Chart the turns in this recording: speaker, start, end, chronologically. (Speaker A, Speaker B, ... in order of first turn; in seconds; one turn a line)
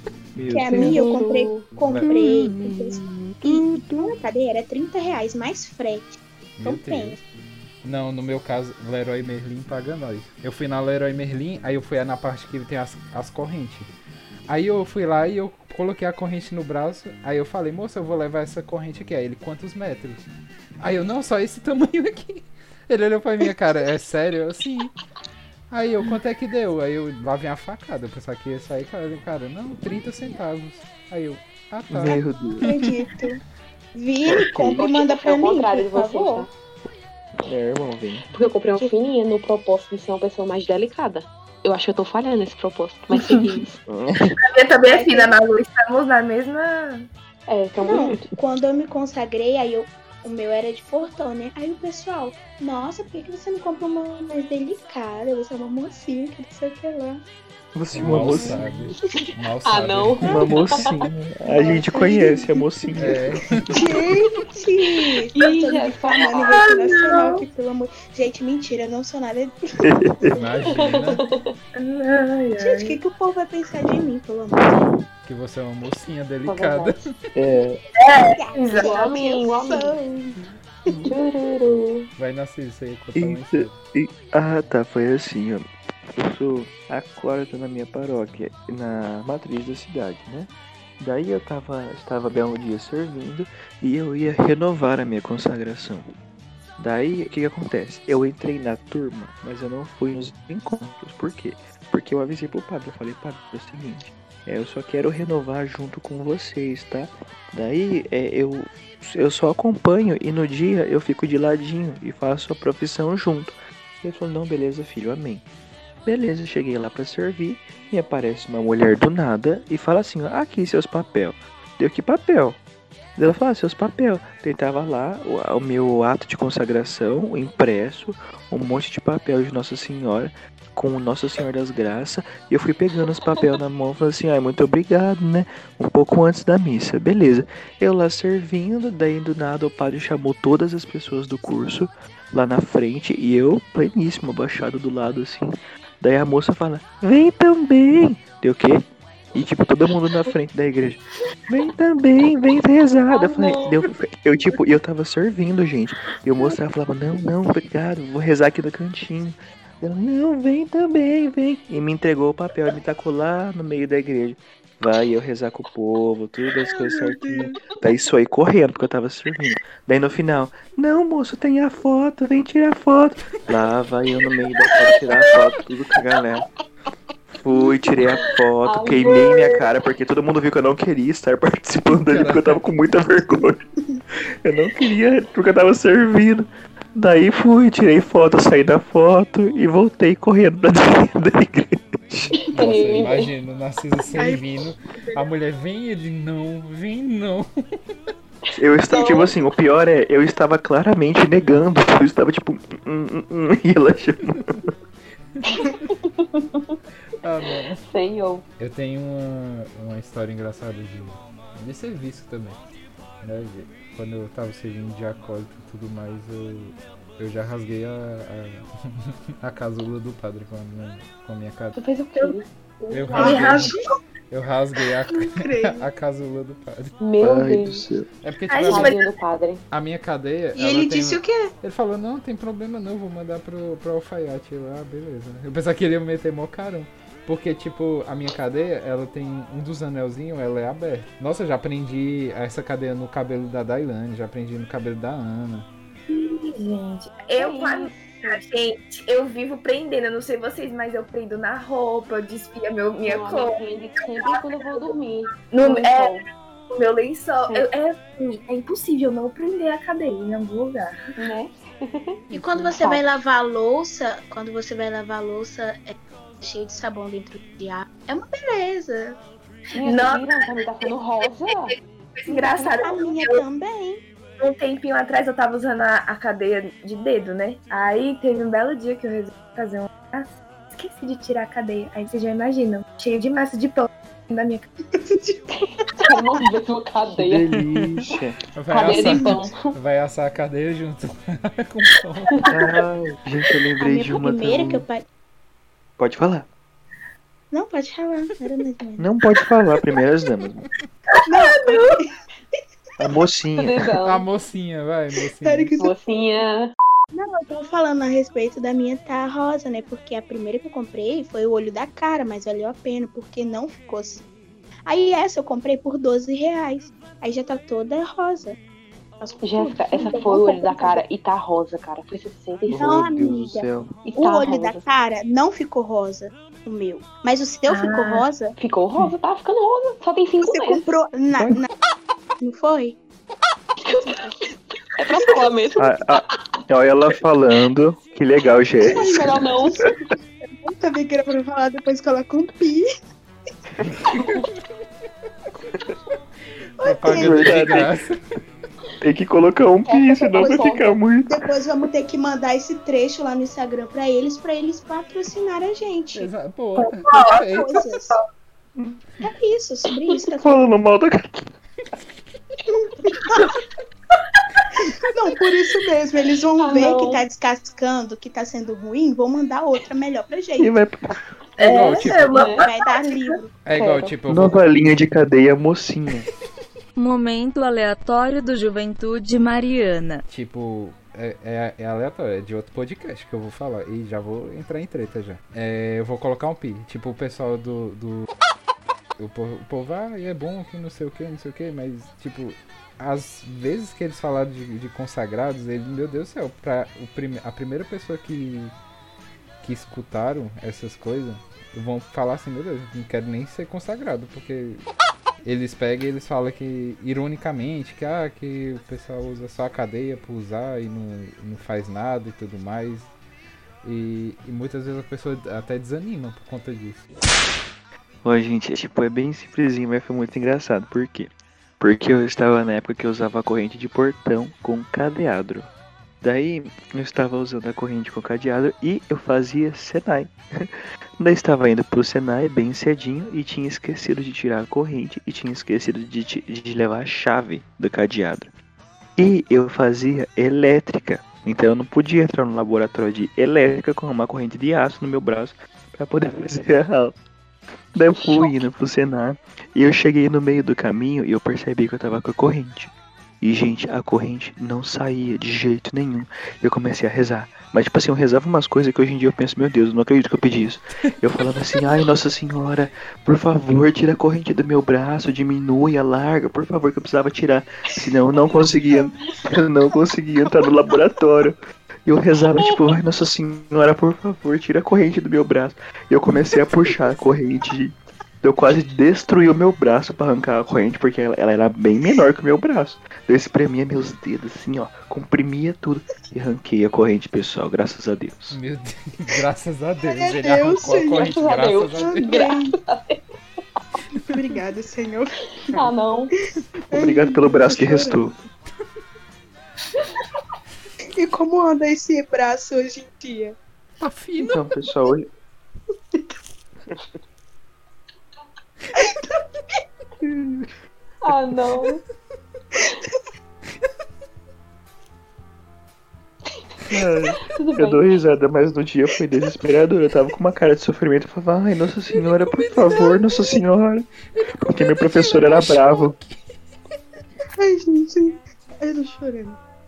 Speaker A: 0.3-4.2
Speaker B: 0.5-7.2
Speaker C: 1.8-2.1
Speaker C: 6.6-7.2
Speaker C: 7.8-13.9
Speaker C: 14.5-20.3
Speaker C: 20.8-24.9
Speaker C: 25.7-33.0
Speaker A: 31.9-32.7
Speaker B: 32.6-33.4
Speaker B: 33.9-36.5
Speaker A: 34.3-34.9
Speaker D: 34.8-36.5
Speaker A: 37.5-38.3
Speaker D: 38.3-43.8
Speaker A: 43.2-44.4
Speaker E: 44.4-47.0
Speaker B: 44.9-45.4
Speaker D: 47.5-48.3
Speaker B: 47.8-57.2
Speaker A: 57.7-58.9
Speaker C: 57.9-60.5
Speaker D: 59.6-60.6
Speaker A: 60.2-63.6
Speaker B: 61.5-63.1
Speaker C: 63.0-63.9
Speaker B: 63.7-71.2
Speaker D: 65.3-67.0
Speaker E: 66.5-67.4
Speaker A: 69.8-70.4
Speaker C: 70.3-71.2
Speaker D: 70.7-71.5
Speaker E: 71.8-73.0
Speaker B: 72.6-74.9
Speaker C: 75.2-77.1
Speaker D: 76.5-77.0
Speaker A: 77.3-77.8
Speaker E: 78.0-78.9
Speaker B: 78.3-81.1
Speaker D: 78.7-80.0
Speaker D: 81.0-82.1
Speaker C: 82.2-83.8
Speaker A: 83.2-85.6
Speaker A: 86.2-96.1
Speaker A: 96.8-115.5
Speaker A: 116.0-122.6
Speaker A: 123.2-176.5
Speaker D: 153.1-153.8
Speaker B: 166.8-167.7
Speaker A: 177.4-183.6
Speaker D: 177.5-179.6
Speaker C: 182.1-182.6
Speaker A: 184.4-192.5
Speaker D: 192.5-193.3
Speaker C: 192.5-198.1
Speaker B: 194.1-195.2
Speaker A: 198.6-204.7
Speaker D: 198.9-199.3
Speaker C: 205.3-205.9
Speaker D: 205.6-206.8
Speaker C: 207.2-207.8
Speaker D: 207.8-208.4
Speaker C: 208.6-212.6
Speaker C: 213.2-221.8
Speaker D: 221.8-223.6
Speaker C: 222.9-223.8
Speaker E: 223.1-223.7
Speaker B: 223.1-223.9
Speaker C: 224.3-226.9
Speaker B: 225.2-225.8
Speaker D: 227.0-227.8
Speaker A: 227.2-228.1
Speaker C: 228.2-229.0
Speaker E: 228.5-229.0
Speaker D: 228.6-229.6
Speaker C: 229.7-245.7
Speaker B: 230.5-231.5
Speaker E: 246.1-253.6
Speaker D: 247.4-248.4
Speaker D: 253.1-256.2
Speaker E: 254.2-255.0
Speaker E: 255.5-260.9
Speaker D: 261.2-263.0
Speaker B: 262.3-269.2
Speaker D: 269.7-271.8
Speaker E: 269.8-270.9
Speaker E: 271.5-273.4
Speaker D: 272.3-272.7
Speaker B: 272.8-274.0
Speaker E: 274.4-284.7
Speaker B: 284.9-286.2
Speaker D: 286.0-287.6
Speaker A: 287.2-288.4
Speaker C: 288.5-292.5
Speaker D: 288.7-289.5
Speaker B: 288.8-289.5
Speaker A: 292.5-294.8
Speaker B: 293.8-295.0
Speaker A: 296.0-296.5
Speaker B: 297.5-299.1
Speaker A: 299.0-300.6
Speaker E: 301.1-301.9
Speaker B: 301.3-302.1
Speaker A: 303.0-303.8
Speaker D: 303.6-304.2
Speaker C: 304.0-305.8
Speaker B: 305.4-305.9
Speaker D: 305.8-306.7
Speaker B: 307.1-314.2
Speaker B: 314.9-318.6
Speaker B: 319.2-321.0
Speaker D: 319.4-322.7
Speaker B: 322.6-328.5
Speaker A: 322.7-323.9
Speaker D: 324.0-324.8
Speaker E: 327.7-328.2
Speaker D: 328.6-330.8
Speaker B: 330.4-331.7
Speaker A: 331.3-331.6
Speaker B: 332.4-333.0
Speaker D: 333.8-334.3
Speaker B: 334.1-334.3
Speaker D: 334.9-336.2
Speaker A: 335.8-339.5
Speaker B: 338.8-339.9
Speaker D: 338.9-339.8
Speaker B: 340.6-342.9
Speaker C: 343.9-344.4
Speaker B: 346.8-347.9
Speaker C: 346.8-348.2
Speaker A: 347.0-347.9
Speaker A: 349.0-351.4
Speaker D: 349.8-350.9
Speaker B: 350.3-356.3
Speaker C: 356.1-357.7
Speaker E: 356.8-357.5
Speaker B: 357.5-358.2
Speaker A: 358.8-359.0
Speaker B: 359.2-360.7
Speaker A: 360.3-361.5
Speaker B: 363.0-363.5
Speaker B: 364.9-370.8
Speaker D: 366.6-367.2
Speaker A: 370.6-371.3
Speaker E: 371.6-373.4
Speaker C: 371.6-372.3
Speaker B: 371.7-373.5
Speaker D: 372.3-372.6
Speaker C: 373.6-374.6
Speaker D: 373.7-374.1
Speaker A: 374.3-376.3
Speaker F: 377.0-380.2
Speaker C: 380.3-388.3
Speaker C: 389.2-398.7
Speaker C: 399.6-404.9
Speaker C: 405.4-413.1
Speaker C: 413.8-417.1
Speaker A: 418.2-425.7
Speaker A: 426.2-438.5
Speaker A: 439.2-447.1
Speaker A: 447.9-488.6
Speaker C: 488.5-492.4
Speaker B: 490.1-491.4
Speaker D: 491.1-493.2
Speaker B: 492.0-492.8
Speaker B: 494.3-498.3
Speaker C: 494.3-494.6
Speaker D: 495.7-496.3
Speaker A: 496.9-498.4
Speaker B: 501.1-503.6
Speaker C: 504.0-504.6
Speaker A: 504.5-505.3
Speaker B: 508.9-509.4
Speaker A: 510.2-510.7
Speaker D: 511.2-512.0
Speaker B: 512.8-513.1
Speaker A: 516.9-524.1
Speaker D: 517.5-518.2
Speaker C: 522.5-523.3
Speaker C: 524.3-526.6
Speaker A: 524.7-526.1
Speaker B: 527.6-529.6